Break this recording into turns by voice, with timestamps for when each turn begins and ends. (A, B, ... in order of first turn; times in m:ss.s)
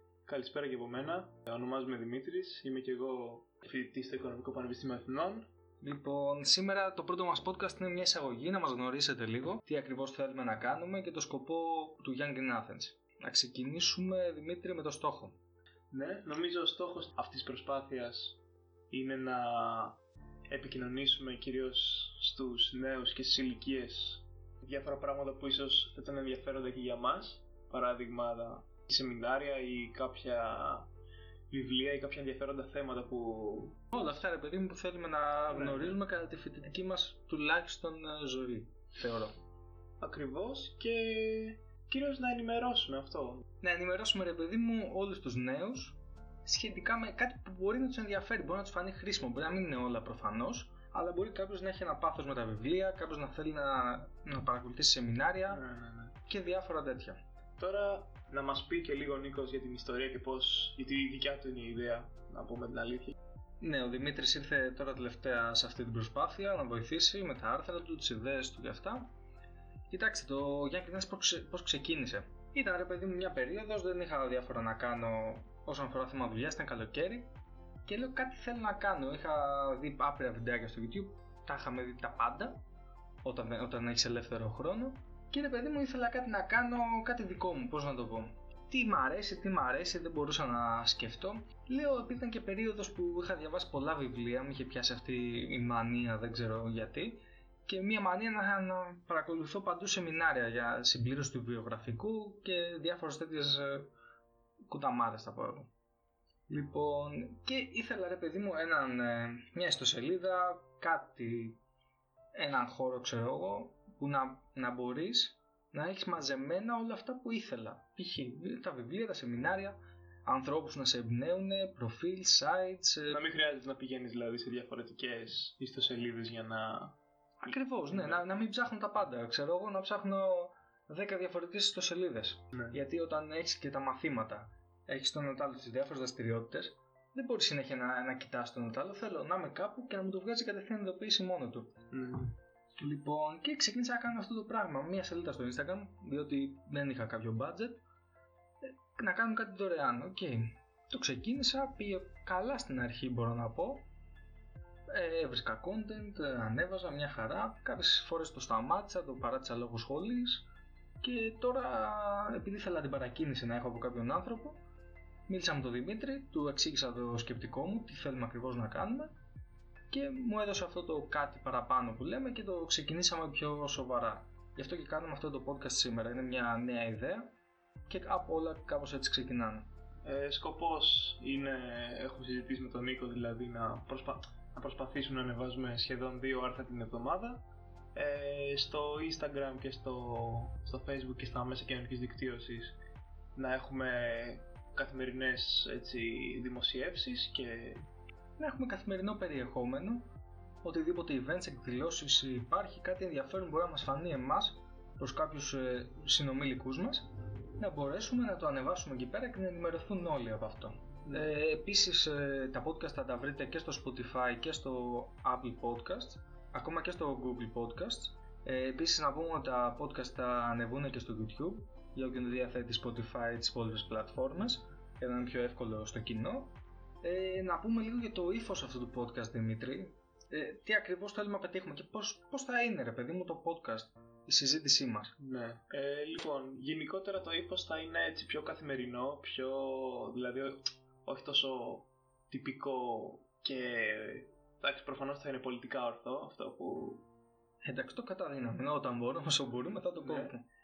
0:00.2-0:05.5 A
0:05.8-0:15.4 B
0:15.9-0:18.4 A
0:18.9-0:20.0 A
0:20.5-0:30.9 A
0:31.5-0:34.1 A
0:33.9-0:39.3 B
0:35.5-0:36.0 A
0:40.0-0:43.4 A
0:43.6-0:55.6 B
0:55.5-0:56.2 A
0:56.3-0:57.2 B
0:57.6-1:03.2 A
1:03.6-1:09.1 B
1:09.9-1:17.3 B
1:17.8-1:22.6 B
1:23.2-1:43.9 B
1:44.7-1:45.7 B
1:46.5-1:51.6 B
1:52.3-2:03.2 B
2:03.1-2:07.0 A
2:07.4-2:21.7 B
2:07.9-2:08.2 A
2:21.9-2:22.3 A
2:22.8-2:27.8 B
2:28.9-2:33.9 B
2:34.9-2:40.5 B
2:41.0-2:44.6 B
2:45.3-2:49.1 B
2:49.9-2:57.3 B
2:57.9-2:59.7 B
3:00.0-3:12.8 A
3:13.3-3:17.8 A
3:18.4-3:20.1 B
3:20.6-3:27.1 B
3:27.6-3:55.1 B
3:55.2-4:07.0 A
4:07.6-4:10.4 B
4:09.9-4:10.3 A